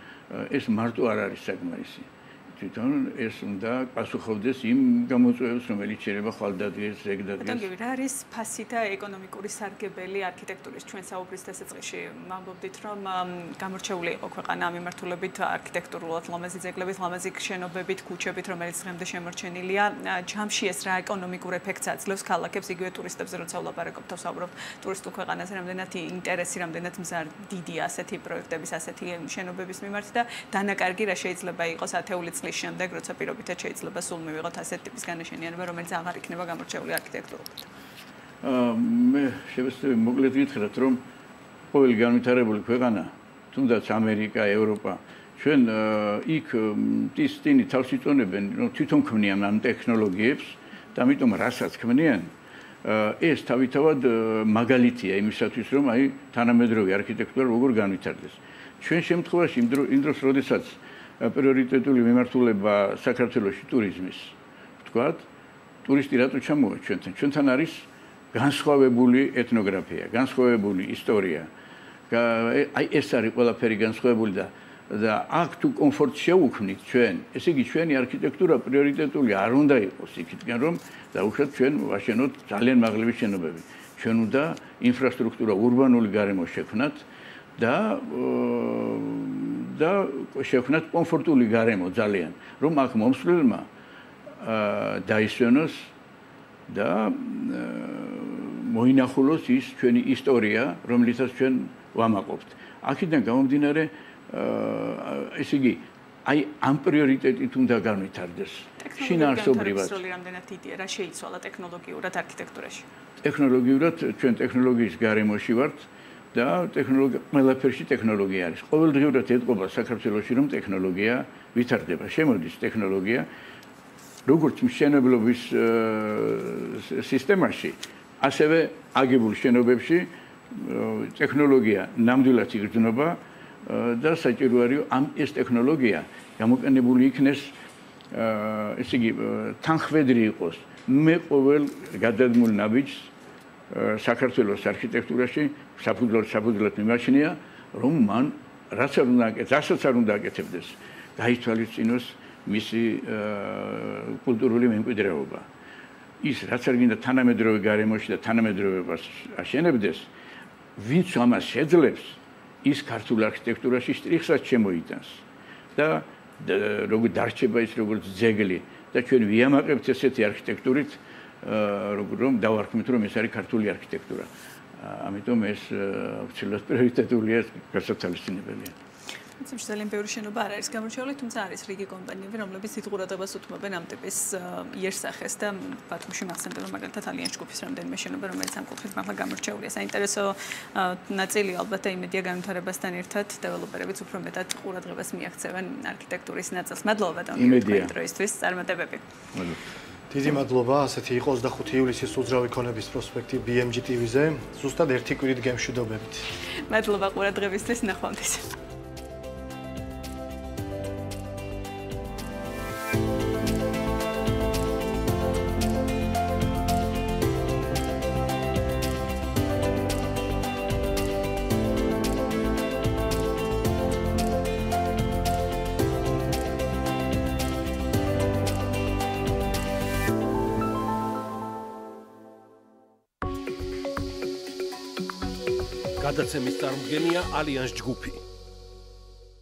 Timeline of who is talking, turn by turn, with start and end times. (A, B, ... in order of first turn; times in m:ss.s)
0:00.3-0:07.7 A
0:07.4-0:37.7 B
0:38.4-0:41.0 A
0:41.7-0:52.3 A
0:52.8-1:05.3 A
1:05.8-1:11.5 A
1:12.1-1:27.0 A
1:27.6-1:33.7 A
1:34.4-1:35.9 A
1:36.7-1:50.0 A
1:48.8-1:52.8 B
1:53.2-2:03.3 A
2:04.3-2:17.5 A
2:18.1-2:23.1 A
2:23.7-2:35.5 A
2:36.2-2:40.1 A
2:40.8-2:45.2 A
2:45.8-2:58.8 A
2:59.4-3:19.0 B
3:17.4-3:17.9 A
3:19.3-3:19.6 A
3:20.1-3:26.3 C
3:26.7-3:28.6 B
3:56.0-3:58.2 D